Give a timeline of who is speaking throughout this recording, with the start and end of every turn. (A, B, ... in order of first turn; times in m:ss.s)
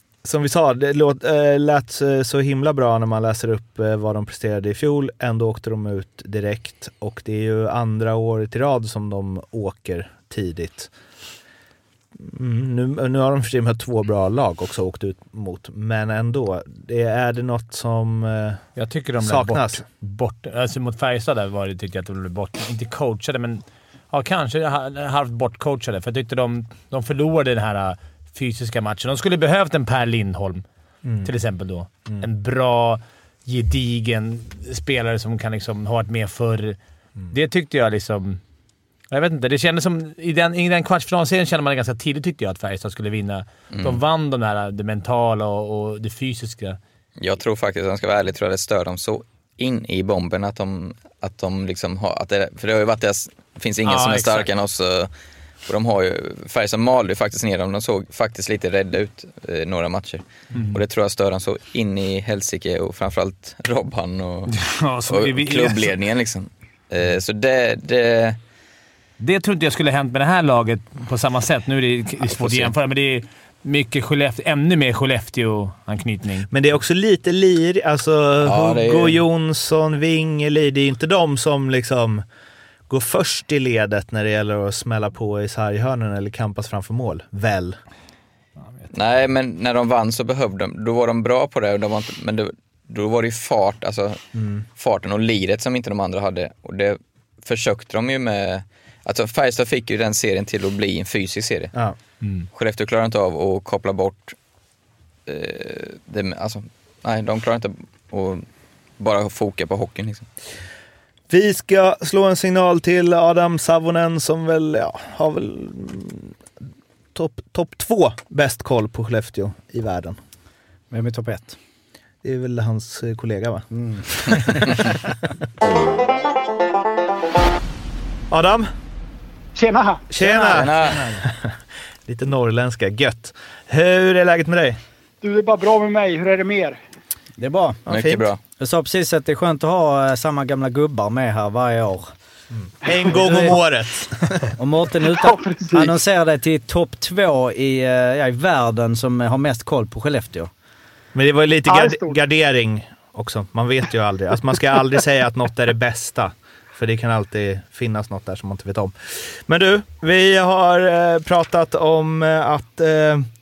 0:00.2-0:10.9 A
0:12.2-0:18.6 A
0:18.8-0:30.6 B
0:19.2-0:19.8 A
0:31.2-0:36.8 B
0:37.3-0:38.4 B
0:39.1-0:46.8 B
0:43.7-0:44.0 C
0:47.2-0:55.1 C
0:53.8-0:54.5 B
0:55.7-1:04.5 C
1:00.5-1:00.8 B
1:04.5-1:06.0 B
1:05.1-1:08.4 C
1:09.2-1:16.5 B
1:12.3-1:12.7 C
1:16.5-1:22.2 A
1:18.4-1:19.2 C
1:22.9-1:27.8 A
1:28.9-1:34.2 C
1:34.4-1:34.6 A
1:34.8-1:41.7 C
1:42.2-1:42.5 B
1:42.5-1:44.4 C
1:45.3-1:48.4 C
1:49.0-1:50.3 C
1:51.3-1:56.4 A
1:57.2-2:00.2 A
2:00.9-2:01.6 D
2:02.2-2:04.9 A
2:03.7-2:04.9 D
2:08.3-2:08.7 A
2:09.6-2:10.6 E
2:10.1-2:14.8 A
2:10.4-2:11.1 C
2:15.2-2:16.8 E
2:17.4-2:17.8 D
2:17.9-2:18.4 C
2:17.9-2:18.3 A
2:18.6-2:22.1 D
2:22.5-2:24.5 A
2:23.1-2:23.6 D
2:24.6-2:30.5 D
2:25.1-2:26.0 E
2:31.1-2:43.3 A
2:31.7-2:32.2 E